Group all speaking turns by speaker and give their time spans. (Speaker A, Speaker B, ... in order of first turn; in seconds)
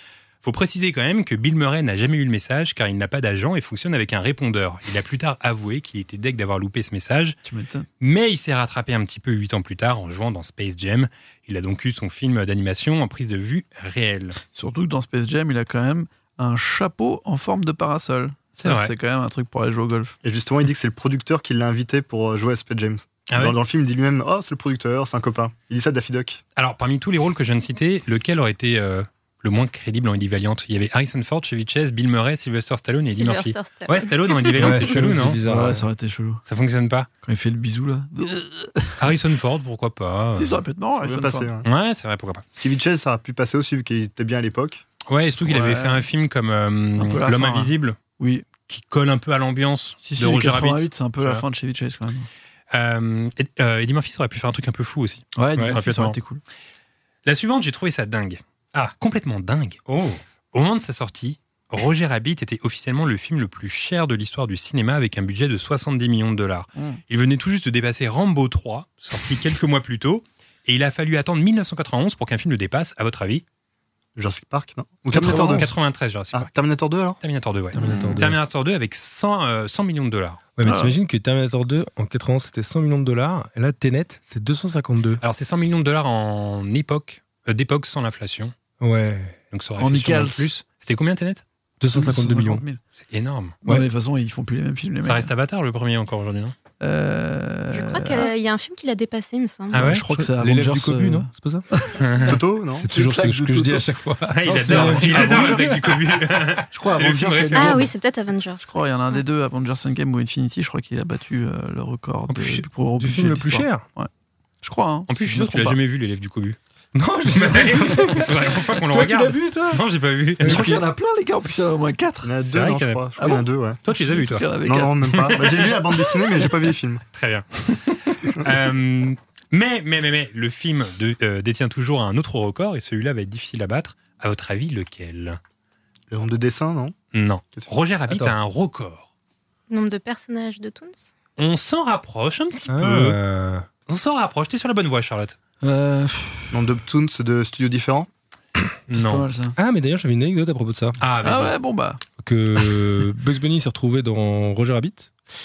Speaker A: 0.4-7.4, 8.0-14.4, 18.6-18.9, 23.3-23.6, 26.6-35.4, 36.5-37.1, 39.0-40.6, 41.6-42.5, 45.1-48.0, 48.7-51.4, 52.7-56.2, 57.2-60.0, 60.5-73.4, 75.1-76.5, 77.2-80.4, 85.2-88.5, 89.5-91.4, 93.0-93.5, 95.0-96.5, 99.7-100.0, 102.0-102.4, 104.3-107.8, 115.1-116.6, 117.3-120.8, 122.5-124.5, 125.1-125.8, 127.1-135.4, 137.1-139.1, 141.4-143.2, 143.9-145.4, 148.9-149.3, 151.0-151.6
Speaker B: 7.4-7.9, 14.5-20.1, 35.2-36.4, 37.2-39.0, 40.4-41.5, 45.4-46.1, 46.9-48.5, 50.0-52.3, 55.4-56.4, 75.1-75.7, 77.8-78.2, 80.6-80.9, 89.8-90.5, 91.9-92.8, 93.7-95.3, 96.8-98.3, 99.7-102.0, 102.9-103.9, 104.5-106.1, 106.8-107.9, 108.7-114.1, 114.6-115.8, 118.9-119.8, 120.4-122.3, 123.2-125.5, 145.6-146.5, 148.9-149.6, 151.2-152.0
Speaker C: 20.2-26.4, 41.0-41.7, 42.6-44.8, 74.2-75.8, 76.3-77.2, 102.2-102.9, 122.2-123.8, 124.6-127.0, 136.1-136.9, 146.5-148.1
Speaker D: 33.1-34.8, 97.7-100.0, 107.5-109.2, 139.7-141.1
Speaker E: 34.6-35.9, 59.9-60.2, 77.7-78.4, 80.5-85.2, 88.8-89.4, 91.8-92.6, 100.0-101.6, 102.8-105.8, 106.7-107.7, 112.4-113.9, 116.9-118.3, 120.4-120.8, 138.1-138.3, 142.7-143.7, 149.6-151.0, 152.2-155.1